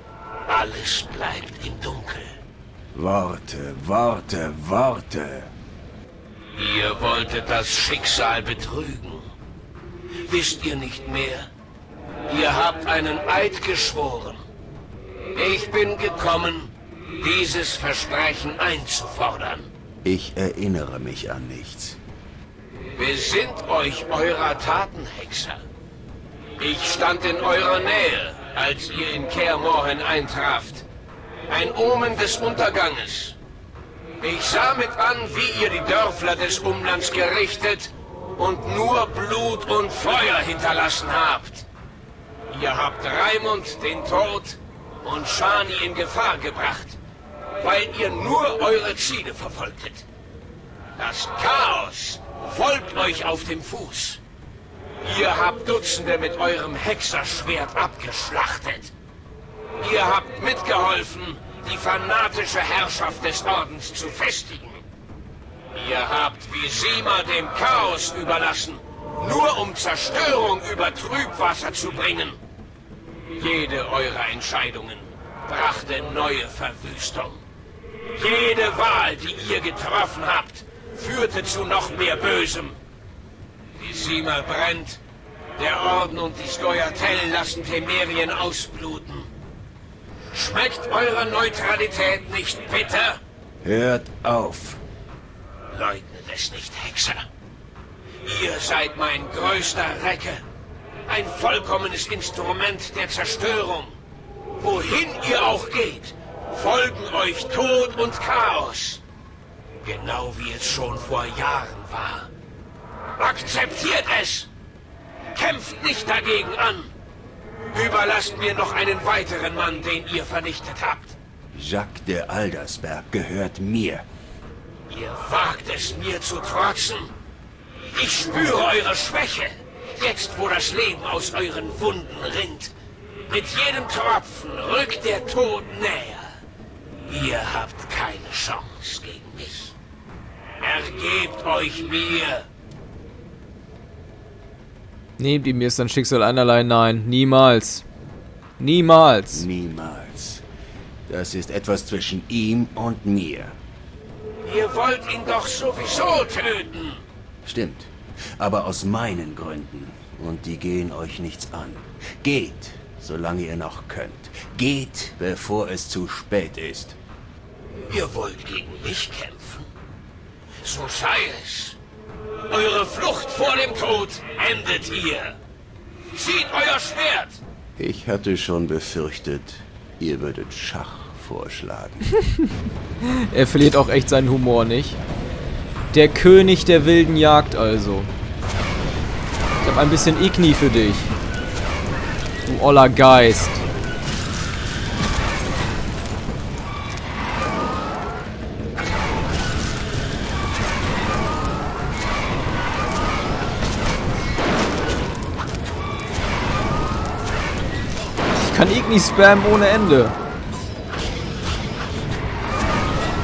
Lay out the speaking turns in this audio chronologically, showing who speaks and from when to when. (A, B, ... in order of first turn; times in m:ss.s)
0:00.5-0:02.4 A
0:02.9-0:05.5 B
0:06.6-0:09.3 A
0:10.3-0:11.5 A
0:12.3-0:14.4 A
0:15.4-0:19.7 A
0:20.0-0:22.0 B
0:23.0-0:25.6 A
0:26.6-0:30.9 A
0:31.5-0:33.4 A
0:34.2-0:41.7 A
0:42.5-0:47.0 A
0:47.6-0:50.0 A
0:51.0-0:54.2 A
0:55.0-0:58.9 A
0:59.8-1:04.8 A
1:05.7-1:12.4 A
1:13.4-1:17.4 A
1:18.2-1:22.8 A
1:23.8-1:25.0 A
1:25.6-1:29.3 A
1:30.3-1:33.2 A
1:33.6-1:34.8 B
1:35.7-1:37.3 A
1:38.2-1:40.4 A
1:41.1-1:44.0 A
1:44.6-1:49.0 A
1:49.8-1:52.3 A
1:53.2-1:54.5 A
1:55.3-1:56.9 A
1:57.7-2:01.2 A
2:01.5-2:04.1 B
2:04.9-2:07.1 A
2:07.9-2:12.7 A
2:13.3-2:16.4 A
2:17.1-2:19.7 A
2:20.6-2:22.5 A
2:25.2-2:27.8 C
2:28.6-2:29.4 C
2:29.3-2:30.4 B
2:31.1-2:33.6 B
2:34.4-2:37.0 A
2:37.4-2:47.0 B
2:47.9-2:49.7 A
2:50.6-2:51.8 A
2:52.5-2:55.4 A
2:56.1-2:57.4 A
2:57.8-3:02.0 B
3:03.0-3:05.0 C
3:05.9-3:08.1 C
3:09.6-3:11.1 C
3:12.5-3:13.6 C
3:28.3-3:30.2 C